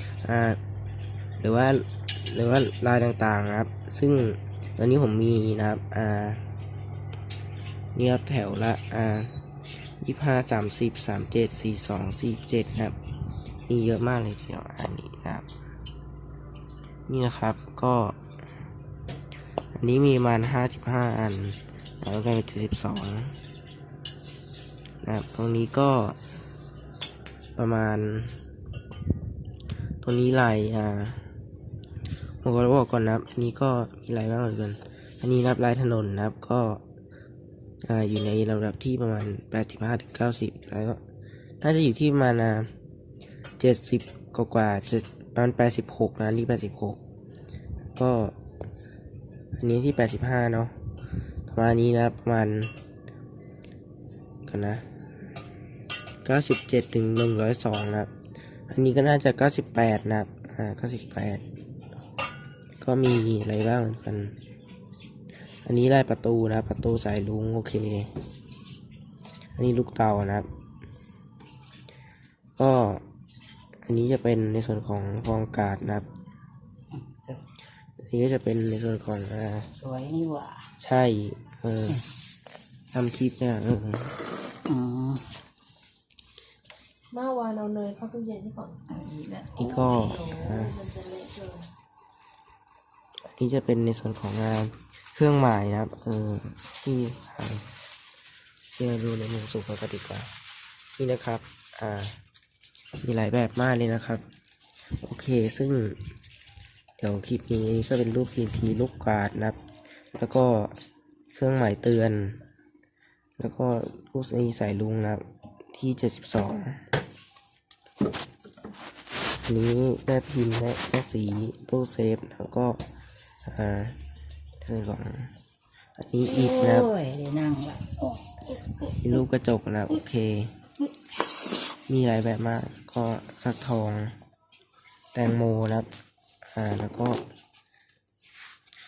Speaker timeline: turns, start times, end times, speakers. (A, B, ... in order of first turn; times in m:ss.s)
0:00.2-0:00.6 A
0:01.4-0:06.4 A
0:07.9-0:09.4 A
0:10.0-0:13.0 A
0:13.7-0:15.4 A
0:17.1-0:18.2 A
0:19.7-0:23.4 A
0:25.0-0:26.2 A
0:27.6-0:28.4 A
0:30.0-0:31.2 A
0:32.4-0:36.8 A
0:37.8-0:41.0 A
0:41.6-0:42.7 A
0:43.6-0:47.0 A
0:47.9-0:48.4 A
0:49.6-0:50.7 A
0:51.5-0:52.7 A
0:54.4-0:54.8 A
0:56.2-0:58.1 A
0:58.7-1:01.4 A
1:02.8-1:04.4 A
1:05.6-1:08.1 A
1:09.6-1:10.5 A
1:12.6-1:13.0 A
1:13.8-1:16.1 A
1:16.9-1:17.4 B
1:18.0-1:19.7 A
1:19.7-1:20.7 B
1:20.8-1:22.0 A
1:22.9-1:24.1 A
1:24.6-1:25.3 B
1:27.1-1:28.8 C
1:28.9-1:30.4 B
1:29.6-1:30.8 A
1:30.0-1:31.7 C
1:33.3-1:37.6 A
1:38.7-1:40.3 A
1:41.0-1:42.2 A
1:43.0-1:44.2 A
1:45.0-1:46.0 A
1:47.0-1:49.6 A
1:50.1-1:50.7 A
1:51.3-1:52.4 A
1:53.4-1:56.9 A
1:59.4-2:02.8 A
2:03.4-2:04.0 A
2:04.6-2:05.3 A
2:06.0-2:06.9 A
2:06.2-2:08.2 B
2:08.9-2:10.5 A
2:11.9-2:14.1 A
2:15.1-2:15.9 A
2:16.5-2:17.2 A